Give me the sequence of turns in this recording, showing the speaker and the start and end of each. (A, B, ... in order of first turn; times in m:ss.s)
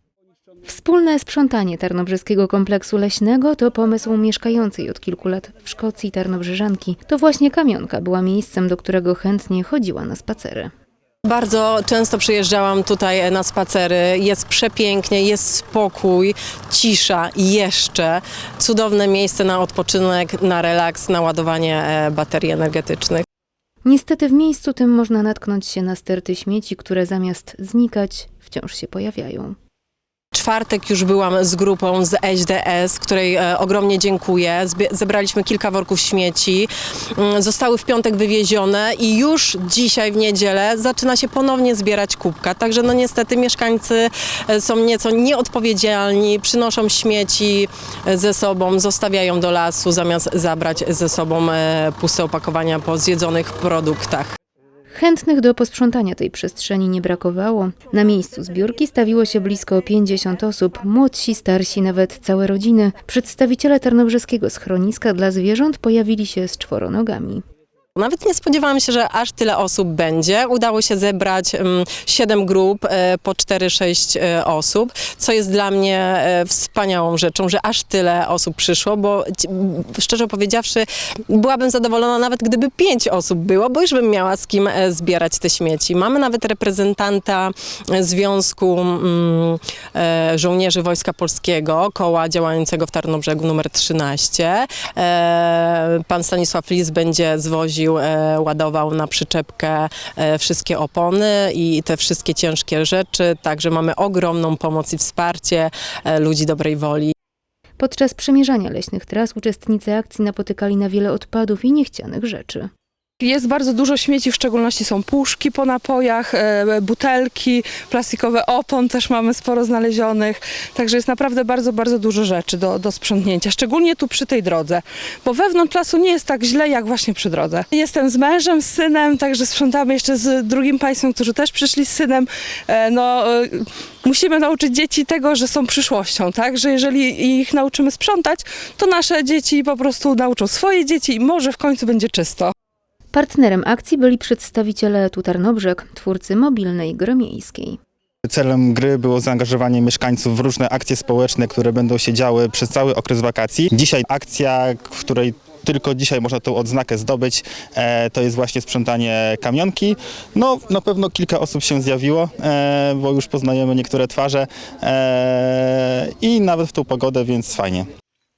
0:00.6-0:10.7 A
0:11.3-0:23.2 B
0:23.8-0:29.6 A
0:30.3-0:54.3 B
0:54.9-1:07.4 A
1:08.0-1:47.1 B
1:47.8-1:52.7 A
1:53.2-2:22.5 C
2:23.1-2:27.8 A
2:28.2-2:47.8 D